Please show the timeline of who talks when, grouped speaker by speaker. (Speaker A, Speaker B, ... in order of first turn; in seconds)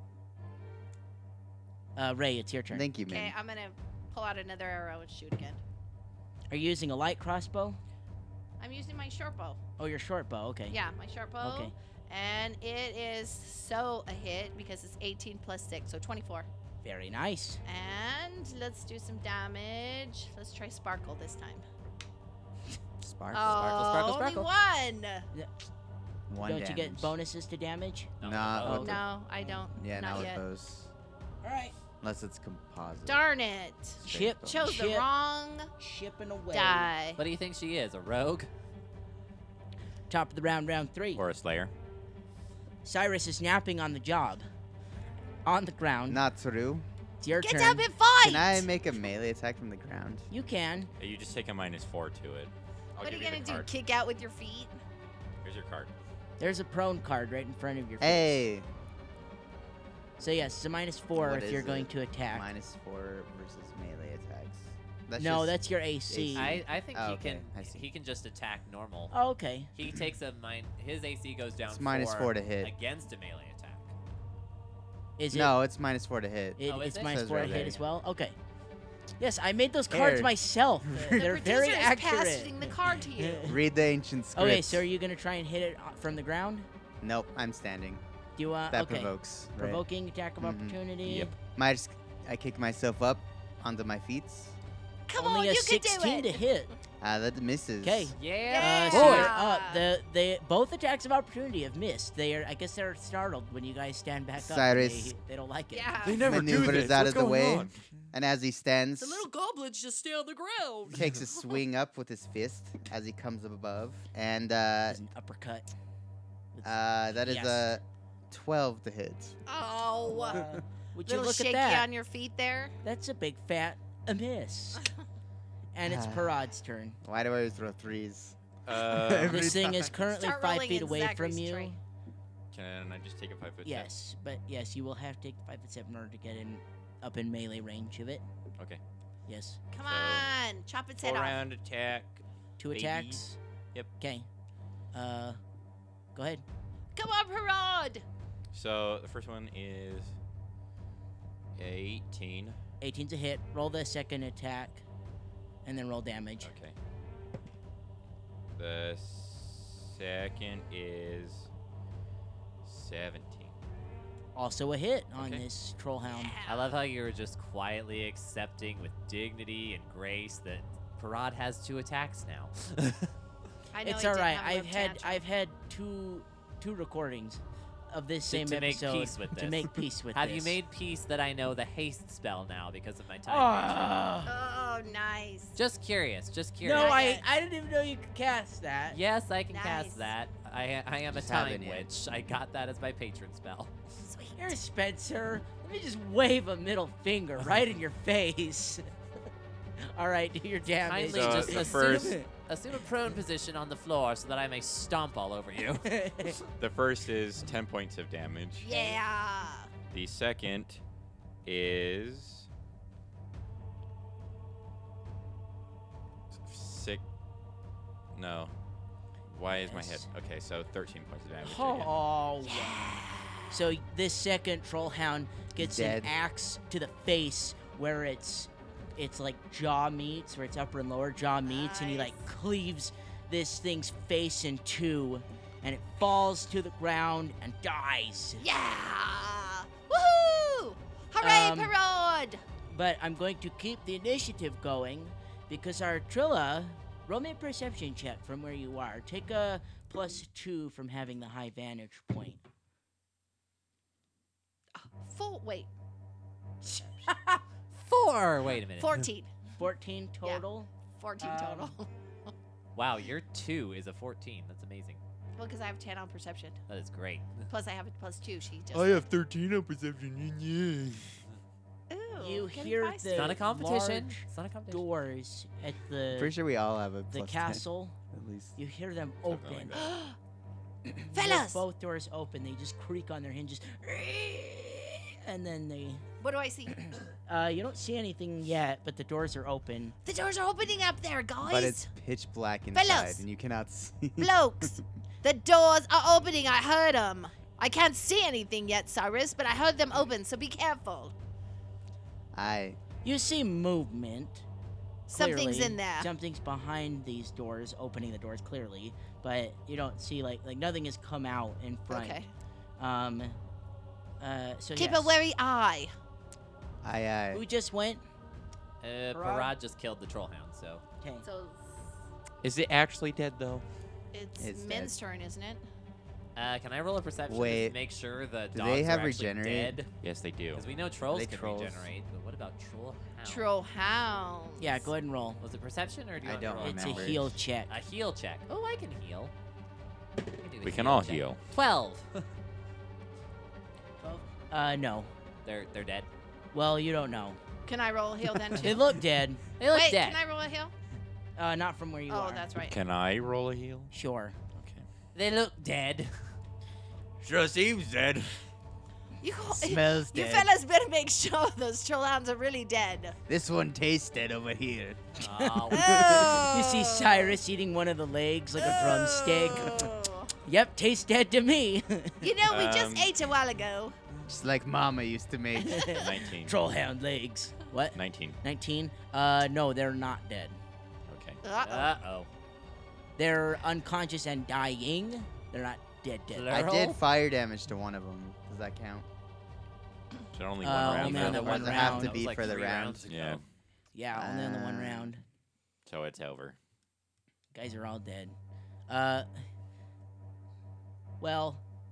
Speaker A: 2.0-2.9, 6.5-7.8, 9.8-10.8, 11.4-11.7, 16.8-17.6, 26.4-28.1, 28.6-29.0, 31.4-31.8, 34.0-35.1, 35.8-36.9, 40.1-41.2, 42.8-44.5, 45.5-46.2, 47.2-47.9, 50.3-50.9, 56.4-58.4, 60.2-62.5, 65.2-66.5, 69.1-69.7, 75.2-75.5, 76.6-78.4, 79.2-83.5, 84.4-86.7, 88.4-91.3, 95.2-96.7, 97.8-106.0, 114.9-115.7, 116.5-117.7, 120.1-121.9, 122.8-124.8, 125.8-127.0, 129.2-131.8, 133.7-138.2, 139.3-139.6, 142.6-143.4, 144.0-144.3, 144.9-145.4, 146.2-146.4, 152.8-154.8, 155.7-156.5, 164.3-166.4, 173.8-180.6, 183.3-184.3, 186.6-189.0, 194.4-198.9, 199.8-202.3, 205.8-206.4, 219.7-220.1, 221.4-222.8, 223.5-238.5, 241.2-241.8, 242.7-252.4, 256.8-257.4, 259.6-261.7, 272.2-276.4, 277.1-278.0, 278.6-279.9, 280.9-286.1, 286.7-289.9, 303.0-304.4, 305.1-312.2, 312.8-313.4, 314.2-315.2, 317.3-318.0, 319.1-319.5, 334.6-335.4, 336.6-337.7, 344.0-345.1, 346.5-347.4, 348.6-349.4, 351.4-352.5, 353.9-354.4, 365.8-369.9, 370.4-372.3, 375.6-380.6, 383.2-386.5, 390.6-392.2, 393.9-395.2, 397.5-398.4, 398.9-399.3, 401.2-401.6
Speaker B: 2.7-3.4, 23.0-23.6, 26.3-27.1, 28.2-29.0, 29.7-30.9, 32.0-33.2, 34.0-34.6, 46.1-46.9, 48.2-50.3, 58.0-58.7, 61.1-65.6, 66.1-67.8, 71.7-72.7, 75.3-77.8, 79.9-80.3, 80.9-81.2, 83.5-84.8, 87.0-88.0, 88.7-89.8, 90.4-90.8, 91.5-94.6, 97.0-98.2, 104.4-105.1, 106.2-109.3, 110.9-115.0, 116.6-119.4, 120.3-120.6, 125.8-126.4, 127.0-130.0, 191.1-191.9, 225.6-226.1, 276.1-278.6, 291.5-294.7, 302.3-302.8, 316.8-317.4, 324.4-324.9, 327.3-327.8, 328.5-329.8, 331.1-331.9, 336.2-337.4, 359.5-360.5, 363.3-365.2, 374.3-376.0, 386.5-389.1, 391.0-393.0, 394.1-395.1
Speaker C: 3.0-5.6, 8.6-9.6, 10.7-16.5, 17.7-21.6, 23.3-25.3, 28.7-30.4, 33.0-35.7, 36.5-37.2, 47.3-48.7, 53.0-54.8, 81.1-83.6, 95.1-96.4, 98.5-99.9, 105.7-106.3, 109.0-111.5, 119.5-120.4, 121.0-122.8, 130.0-131.8, 139.7-141.4, 146.9-148.0, 166.1-166.7, 173.7-175.2, 184.3-185.6, 186.7-187.2, 189.5-190.1, 194.1-194.5, 208.6-209.7, 222.4-223.6, 231.5-232.3, 238.4-242.4, 254.8-255.7, 258.8-259.3, 260.9-261.9, 265.4-266.6, 267.5-269.1, 271.9-273.4, 279.7-280.2, 281.1-281.6, 286.2-286.8, 290.1-291.9, 292.7-293.2, 294.2-301.1, 305.1-306.1, 311.9-312.3, 314.8-315.9, 321.2-321.6, 324.1-325.6, 333.2-334.9, 347.7-349.0, 349.7-350.7, 352.1-352.8, 359.2-363.2, 365.7-367.4, 368.6-370.4, 372.2-373.9, 381.4-381.9
Speaker D: 23.3-23.8, 41.2-41.7, 51.0-53.7, 55.4-55.9, 91.0-91.3, 106.0-107.8, 128.7-129.7, 132.5-133.9, 139.8-140.3, 141.0-143.2, 148.5-150.1, 151.6-152.6, 156.4-156.8, 158.6-161.5, 162.6-163.5, 201.1-202.2, 206.6-209.0, 209.9-210.8, 211.4-212.5, 216.3-217.0, 218.1-218.5, 219.3-221.9, 268.7-271.2, 279.3-279.9, 322.4-323.6, 330.0-330.6, 340.6-341.4, 352.6-353.9, 354.6-354.9, 357.2-358.4, 372.5-373.1, 375.9-376.6, 377.9-378.4, 381.1-381.4, 390.3-391.6, 393.1-393.4, 395.9-396.6
Speaker E: 23.5-24.5, 28.2-29.0, 37.2-38.5, 66.3-69.1, 69.8-73.9, 76.7-77.6, 98.2-99.3, 166.5-173.1, 178.3-184.0, 185.6-187.0, 188.9-193.7, 200.8-206.3, 257.7-259.1, 262.8-265.0, 266.7-267.5, 273.1-274.8, 318.8-320.8, 326.4-329.9, 330.5-333.5, 335.4-337.2, 337.7-339.3, 340.3-342.2, 345.4-346.1, 349.6-350.2, 355.1-356.1, 365.2-366.2, 381.6-382.3, 386.3-387.0, 391.0-393.4